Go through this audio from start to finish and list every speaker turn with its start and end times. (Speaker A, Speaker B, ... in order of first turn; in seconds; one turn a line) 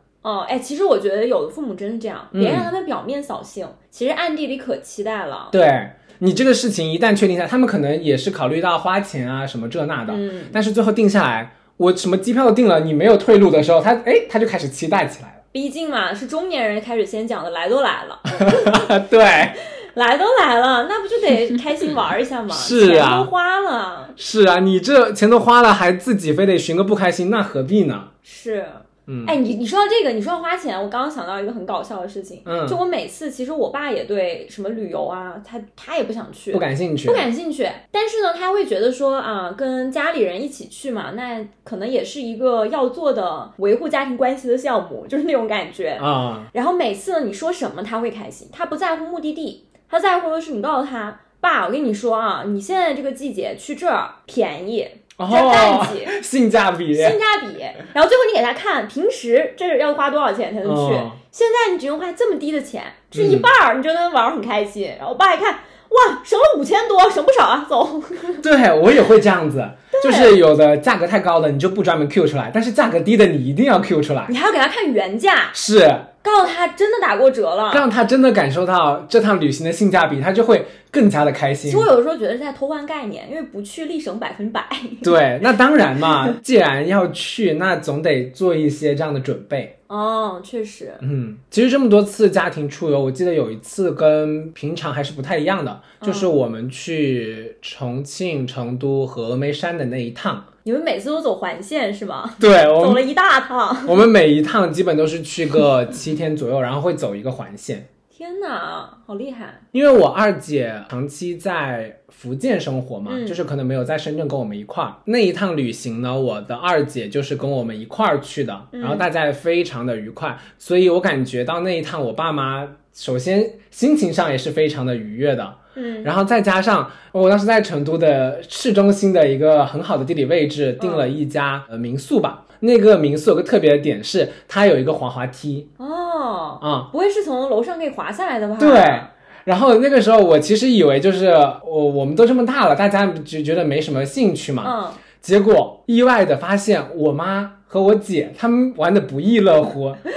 Speaker A: 0.2-5.5
Speaker B: 2.3-2.7
Speaker B: 5.5-15.4
Speaker A: 10.1-10.6
Speaker A: 15.5-18.9
Speaker B: 18.4-19.6
Speaker A: 19.9-24.1
Speaker B: 22.5-23.3
Speaker B: 24.2-28.1
Speaker A: 28.2-56.2
Speaker B: 29.1-29.4
Speaker B: 32.5-32.8
Speaker B: 36.5-37.3
Speaker B: 46.0-46.5
Speaker B: 55.2-57.2
Speaker A: 56.9-68.4
Speaker B: 60.6-61.2
Speaker B: 63.1-63.5
Speaker B: 68.4-74.3
Speaker A: 69.9-70.4
Speaker A: 74.3-75.6
Speaker B: 75.5-76.1
Speaker A: 76.2-77.9
Speaker B: 77.7-81.9
Speaker A: 81.7-85.2
Speaker B: 85.0-89.7
Speaker A: 89.9-91.0
Speaker B: 91.0-100.5
Speaker A: 96.0-96.3
Speaker A: 100.7-104.0
Speaker B: 102.4-103.0
Speaker B: 103.9-107.9
Speaker A: 108.1-109.6
Speaker B: 109.7-135.7
Speaker A: 113.1-113.4
Speaker A: 118.7-119.1
Speaker A: 125.8-126.1
Speaker A: 130.8-131.1
Speaker A: 135.8-139.1
Speaker B: 136.6-136.9
Speaker B: 138.6-150.0
Speaker A: 144.6-145.0